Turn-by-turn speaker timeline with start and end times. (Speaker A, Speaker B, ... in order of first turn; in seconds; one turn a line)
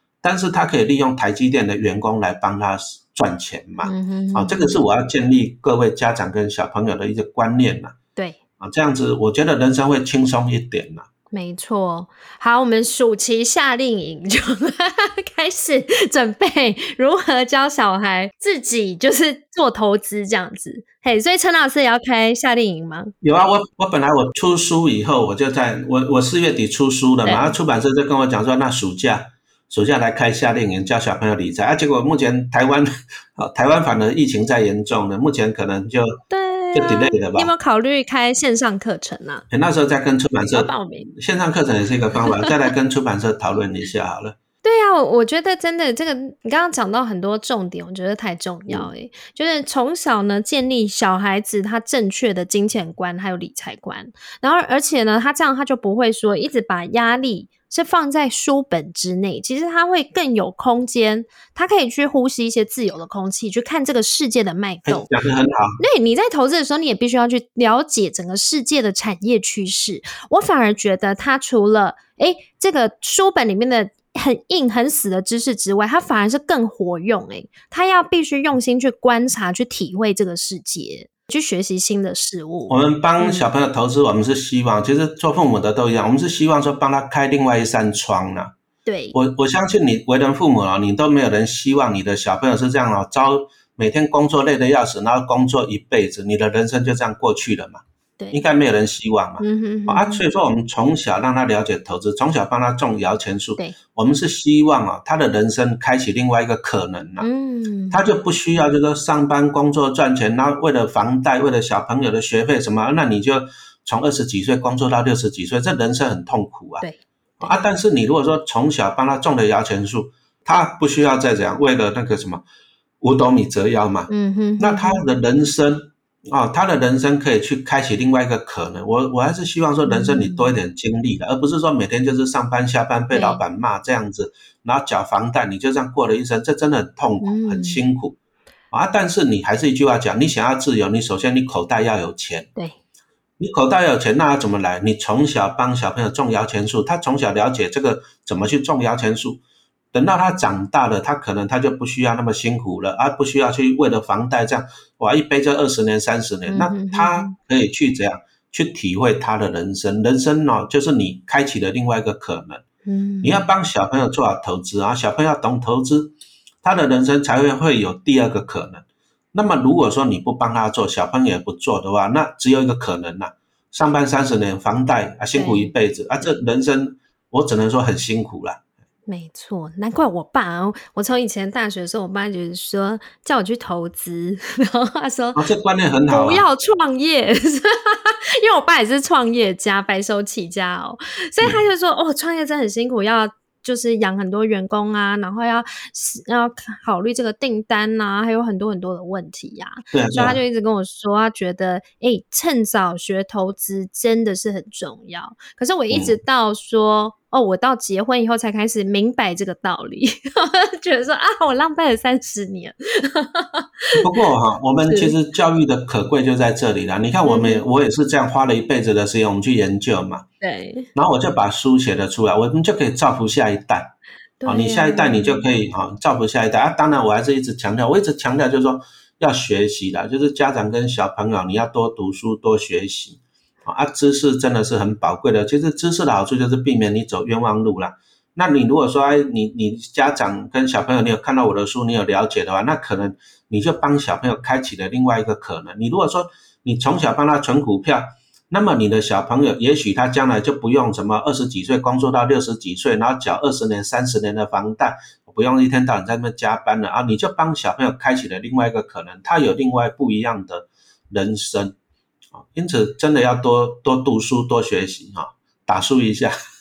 Speaker A: 0.2-7.9
Speaker B: 3.8-4.7
Speaker A: 8.6-11.1
Speaker B: 11.3-23.1
Speaker A: 23.2-36.2
Speaker B: 27.2-27.6
Speaker B: 36.3-39.4
Speaker A: 36.7-37.5
Speaker A: 39.5-44.4
Speaker B: 40.5-41.1
Speaker B: 44.6-65.1
Speaker A: 64.8-65.8
Speaker B: 65.8-83.5
Speaker A: 82.7-88.5
Speaker B: 88.8-89.2
Speaker A: 89.1-107.3
Speaker B: 99.4-100.2
Speaker B: 107.2-108.0
Speaker A: 107.9-116.8
Speaker B: 116.8-117.5
Speaker A: 117.4-122.4
Speaker A: 123.0-138.2
Speaker B: 124.1-125.0
Speaker B: 129.8-130.5
Speaker B: 133.1-133.4
Speaker B: 137.2-137.8
Speaker A: 138.7-142.5
Speaker A: 143.4-149.4
Speaker A: 149.9-162.6
Speaker B: 156.5-157.3
Speaker B: 162.8-163.4
Speaker A: 163.2-178.6
Speaker B: 175.3-175.7
Speaker B: 179.1-185.4
Speaker A: 185.3-186.4
Speaker B: 186.1-214.0
Speaker A: 199.9-200.4
Speaker A: 213.9-220.2
Speaker B: 214.8-215.1
Speaker B: 217.2-217.6
Speaker B: 220.4-220.9
Speaker A: 220.9-223.9
Speaker B: 224.4-225.4
Speaker A: 224.4-261.7
Speaker A: 262.4-266.3